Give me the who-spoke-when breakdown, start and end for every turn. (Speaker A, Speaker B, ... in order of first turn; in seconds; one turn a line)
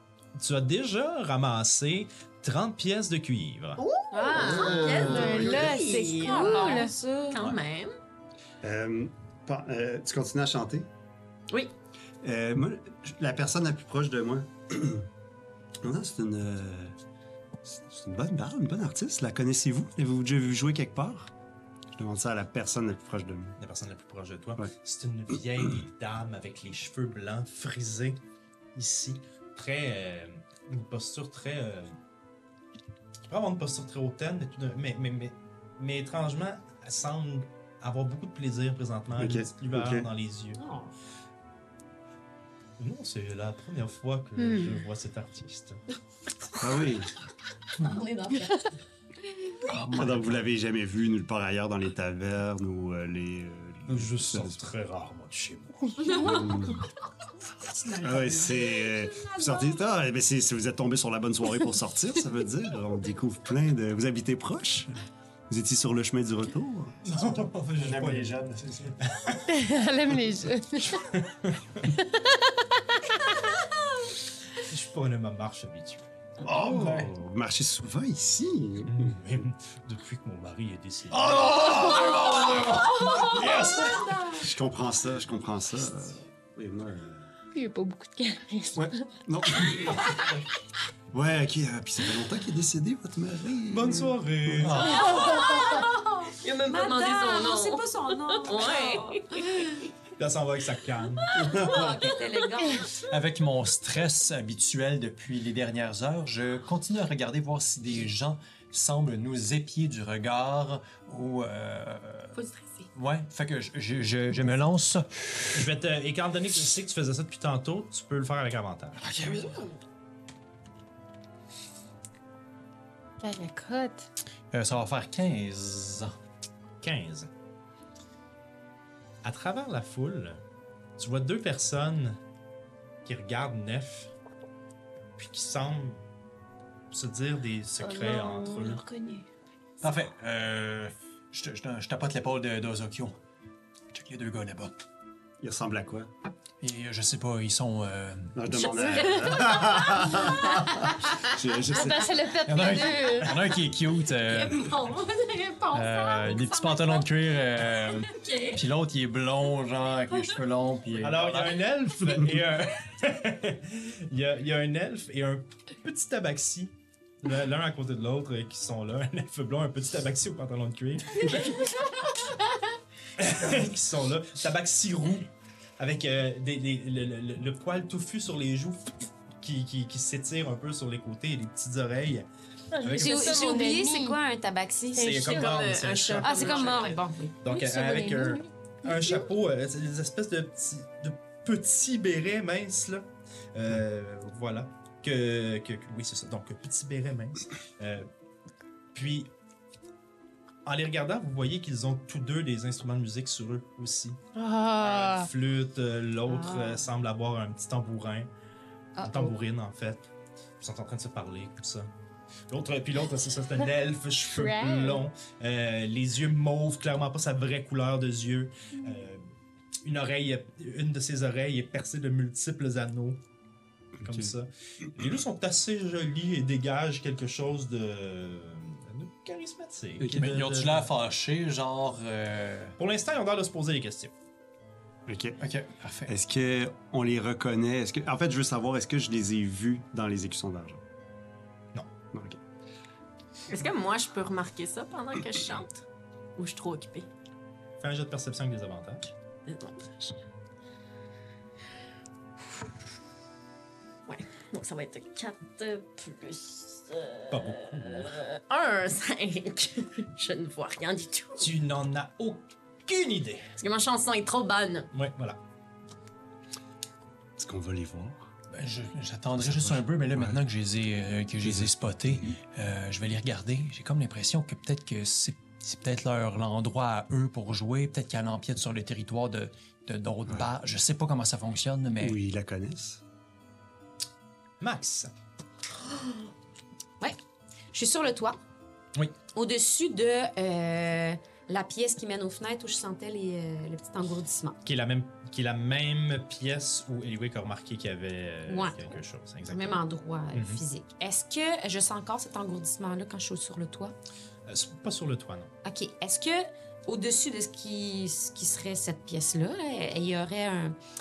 Speaker A: 0.4-3.8
Speaker B: 3.9-8.0
Speaker C: 4.1-5.1
Speaker D: 4.3-7.0
Speaker E: 4.6-5.6
Speaker C: 6.2-7.3
Speaker E: 8.6-10.9
Speaker E: 12.2-15.1
Speaker E: 15.8-17.0
Speaker E: 17.6-21.3
Speaker E: 21.9-23.6
Speaker A: 23.6-28.2
Speaker A: 28.8-31.9
Speaker A: 33.3-40.7
Speaker E: 39.2-40.1
Speaker C: 40.6-40.9
Speaker A: 42.8-45.8
Speaker D: 44.4-44.7
Speaker E: 46.6-47.1
Speaker C: 47.9-48.5
Speaker F: 49.6-50.4
Speaker E: 49.9-54.6
Speaker A: 53.9-55.8
Speaker C: 56.0-56.6
Speaker D: 56.0-56.4
Speaker E: 56.2-56.8
Speaker E: 58.0-64.9
Speaker C: 59.2-59.6
Speaker E: 65.5-67.0
Speaker A: 67.0-68.3
Speaker F: 67.8-69.0
Speaker A: 69.1-69.4
Speaker D: 69.5-71.0
Speaker A: 70.9-71.9
Speaker D: 72.0-73.4
Speaker A: 74.7-77.0
Speaker F: 76.4-77.1
Speaker E: 76.5-79.2
Speaker A: 78.9-81.5
Speaker F: 81.1-84.2
Speaker E: 84.3-87.3
Speaker D: 87.5-89.1
Speaker E: 88.8-90.3
Speaker E: 91.1-94.8
Speaker A: 93.7-94.9
Speaker F: 94.6-95.5
Speaker B: 95.0-99.8
Speaker C: 95.2-99.8
Speaker A: 100.2-101.7
Speaker C: 101.3-103.0
Speaker F: 103.0-112.4
Speaker B: 112.4-112.9
Speaker F: 113.0-115.5
Speaker A: 115.5-119.0
Speaker F: 119.0-119.7
Speaker B: 119.3-119.7
Speaker D: 123.2-124.1
Speaker F: 124.5-126.1
Speaker A: 126.8-127.3
Speaker A: 129.2-130.4
Speaker A: 131.0-132.2
Speaker A: 133.1-134.1
Speaker A: 135.2-136.0
Speaker A: 136.9-138.8
Speaker D: 137.8-139.3
Speaker F: 139.8-143.2
Speaker F: 143.9-144.7
Speaker E: 145.4-146.1
Speaker F: 146.6-148.4
Speaker E: 148.3-152.2
Speaker B: 148.5-150.7
Speaker D: 151.7-153.4
Speaker F: 152.4-154.7
Speaker B: 154.5-157.0
Speaker F: 155.7-161.6
Speaker B: 158.1-158.6
Speaker A: 161.0-171.6
Speaker A: 173.2-175.3
Speaker A: 175.8-178.9
Speaker A: 179.4-182.3
Speaker D: 182.7-184.2
Speaker A: 182.8-183.4
Speaker C: 183.0-185.3
Speaker D: 184.9-185.6
Speaker A: 185.0-186.9
Speaker B: 185.2-187.0
Speaker C: 186.2-187.4
Speaker A: 187.4-198.1
Speaker D: 187.5-189.3
Speaker A: 198.9-199.3
Speaker A: 200.7-204.2
Speaker D: 204.3-205.3
Speaker A: 204.8-208.3
Speaker C: 206.3-206.9
Speaker C: 209.0-209.3
Speaker A: 209.0-210.1
Speaker A: 210.6-211.9
Speaker A: 212.5-219.2
Speaker D: 214.3-215.0
Speaker A: 219.8-223.2
Speaker A: 224.0-230.9
Speaker E: 224.1-224.3
Speaker F: 230.0-232.8
Speaker A: 232.8-234.1
Speaker E: 235.1-235.4
Speaker F: 235.4-236.1
Speaker E: 236.1-240.8
Speaker E: 242.1-242.4
Speaker B: 243.5-245.8
Speaker B: 246.4-247.1
Speaker A: 247.8-249.1
Speaker B: 249.5-250.2
Speaker B: 254.1-261.5
Speaker A: 257.3-258.1
Speaker A: 261.4-263.4
Speaker B: 263.6-264.9
Speaker A: 264.9-265.4
Speaker E: 267.4-268.3
Speaker F: 268.5-282.2
Speaker E: 269.4-270.4
Speaker E: 271.4-271.8
Speaker E: 282.0-283.0
Speaker A: 284.6-285.1
Speaker C: 287.7-288.4
Speaker C: 289.3-294.6
Speaker A: 294.6-299.8
Speaker C: 298.5-303.9
Speaker A: 300.3-300.6
Speaker A: 304.5-305.5
Speaker C: 305.6-310.8